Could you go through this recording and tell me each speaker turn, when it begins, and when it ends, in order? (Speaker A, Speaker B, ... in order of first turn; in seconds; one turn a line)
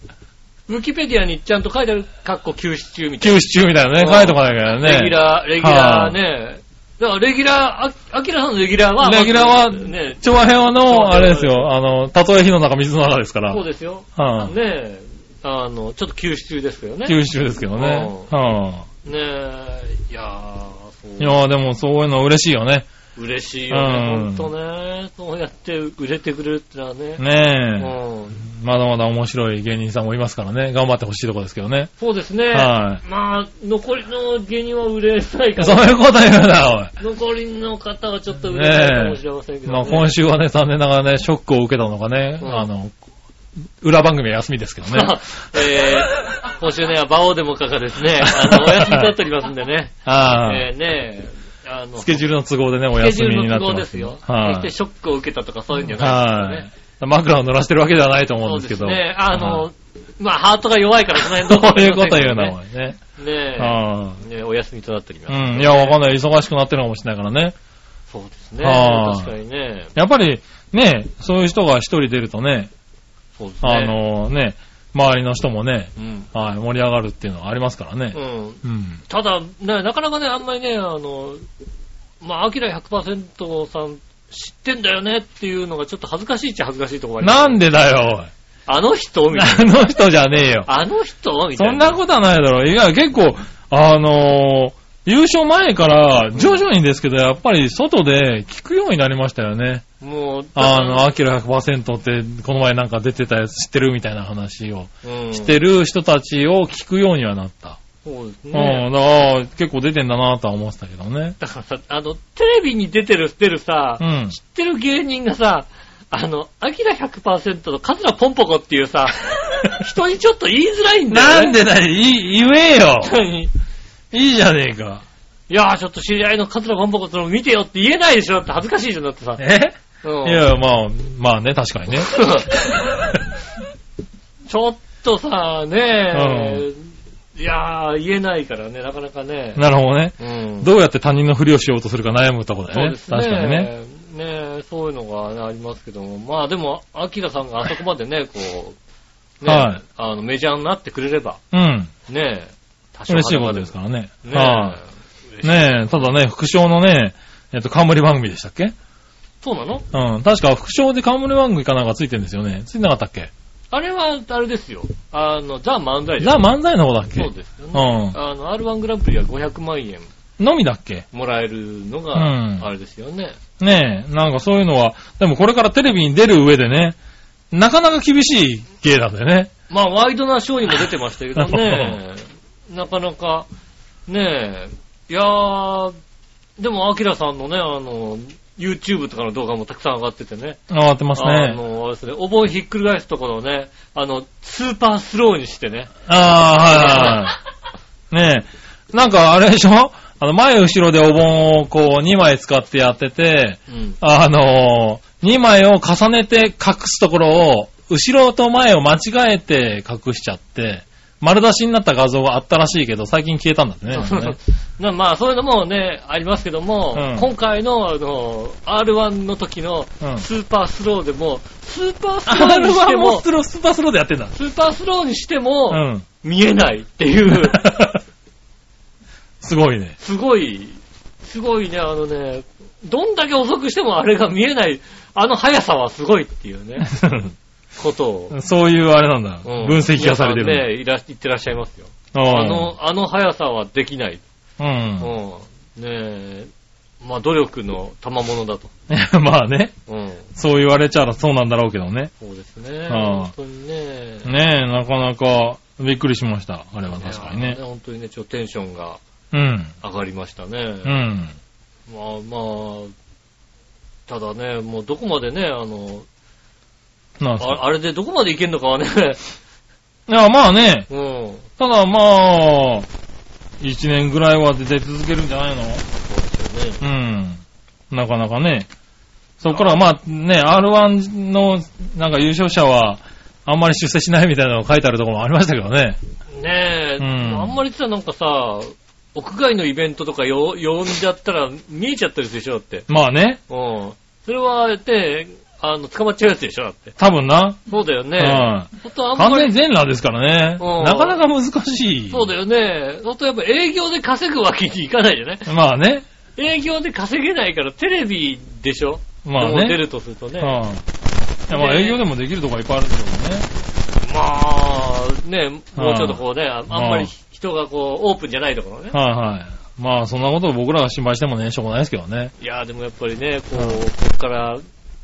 Speaker A: 0.7-10.2
Speaker B: 3.2-6.2
Speaker B: 9.0-13.6
Speaker A: 10.8-11.7
Speaker A: 13.5-17.2
Speaker B: 14.2-14.5
Speaker B: 17.1-18.9
Speaker A: 17.8-18.3
Speaker A: 19.1-21.4
Speaker B: 21.2-22.9
Speaker A: 23.2-27.2
Speaker B: 23.7-24.5
Speaker B: 27.2-31.9
Speaker A: 27.8-28.4
Speaker A: 32.0-36.0
Speaker B: 32.5-33.0
Speaker B: 35.6-36.9
Speaker A: 37.0-40.1
Speaker B: 38.5-42.9
Speaker A: 42.4-42.7
Speaker B: 43.8-45.2
Speaker A: 44.9-52.3
Speaker B: 48.2-49.1
Speaker B: 50.0-50.7
Speaker B: 52.0-54.7
Speaker A: 52.9-56.7
Speaker B: 55.9-59.7
Speaker A: 58.4-62.6
Speaker B: 61.3-63.0
Speaker A: 63.2-66.0
Speaker B: 63.6-64.2
Speaker B: 65.3-67.5
Speaker A: 68.1-69.9
Speaker B: 68.6-69.3
Speaker B: 70.0-72.7
Speaker A: 73.4-74.0
Speaker B: 73.6-79.0
Speaker A: 76.0-76.3
Speaker A: 78.1-81.4
Speaker A: 82.2-87.6
Speaker B: 87.2-88.3
Speaker A: 88.7-89.9
Speaker B: 89.3-90.7
Speaker A: 90.7-92.0
Speaker B: 91.6-99.8
Speaker A: 100.0-101.1
Speaker B: 100.6-107.8
Speaker A: 105.0-105.5
Speaker A: 108.0-108.9
Speaker B: 108.5-111.4
Speaker A: 111.4-121.6
Speaker B: 114.0-114.4
Speaker B: 121.1-123.2
Speaker A: 123.0-123.5
Speaker B: 124.1-125.0
Speaker A: 125.5-129.4
Speaker B: 129.4-133.3
Speaker A: 130.0-130.4
Speaker A: 132.0-132.6
Speaker A: 134.5-139.6
Speaker B: 136.1-136.7
Speaker B: 139.6-143.7
Speaker A: 140.2-140.7
Speaker A: 142.7-148.8
Speaker A: 149.4-151.4
Speaker B: 149.4-149.8
Speaker B: 151.5-151.9
Speaker A: 152.1-156.0
Speaker B: 153.1-154.8
Speaker B: 155.4-158.8
Speaker A: 159.4-159.8
Speaker B: 159.9-163.3
Speaker A: 163.7-166.5
Speaker B: 166.2-168.2
Speaker A: 167.1-170.1
Speaker B: 170.4-171.1
Speaker A: 171.1-173.4
Speaker B: 172.2-172.7
Speaker B: 173.6-177.0
Speaker B: 177.5-179.5
Speaker A: 179.7-183.5
Speaker B: 181.4-182.0
Speaker A: 184.1-185.9
Speaker A: 186.6-190.6
Speaker B: 190.7-191.6
Speaker A: 191.2-195.9
Speaker B: 196.1-197.4
Speaker A: 196.5-197.3
Speaker B: 198.1-214.4
Speaker A: 203.7-204.0
Speaker A: 213.9-223.3
Speaker B: 216.9-217.3
Speaker B: 222.3-224.3
Speaker A: 224.3-227.6
Speaker B: 225.7-226.1
Speaker B: 227.3-228.0
Speaker B: 229.4-230.0
Speaker A: 230.0-236.9
Speaker B: 236.8-237.3
Speaker A: 237.8-238.4
Speaker B: 238.3-240.7
Speaker A: 239.4-244.2
Speaker B: 242.1-242.7
Speaker B: 244.6-245.1
Speaker A: 245.0-248.7
Speaker B: 248.9-249.7
Speaker A: 249.9-250.3
Speaker B: 250.4-252.1
Speaker A: 252.2-254.3
Speaker B: 252.9-253.3
Speaker B: 254.2-257.6
Speaker A: 256.9-259.0
Speaker B: 259.3-259.7
Speaker A: 259.8-261.0
Speaker B: 260.9-261.4
Speaker A: 261.9-262.9
Speaker A: 264.1-266.1
Speaker B: 267.2-267.6
Speaker A: 267.4-269.2
Speaker B: 270.1-270.9
Speaker A: 270.9-271.5
Speaker B: 271.6-272.9
Speaker B: 273.6-275.8
Speaker A: 276.0-276.8
Speaker B: 276.8-278.7
Speaker B: 279.4-286.0
Speaker A: 279.5-279.9
Speaker A: 286.3-292.9
Speaker B: 287.0-287.6
Speaker B: 292.9-293.4
Speaker A: 293.5-296.9
Speaker B: 297.0-297.6
Speaker A: 297.7-299.6
Speaker B: 298.2-302.3
Speaker A: 300.6-301.2
Speaker A: 302.1-305.5
Speaker B: 305.5-306.1
Speaker A: 306.4-310.6
Speaker B: 309.2-309.8
Speaker B: 310.4-310.8
Speaker B: 311.5-313.5
Speaker A: 311.5-312.0
Speaker A: 314.0-319.0
Speaker B: 315.8-317.1
Speaker B: 318.9-322.3
Speaker A: 322.4-324.6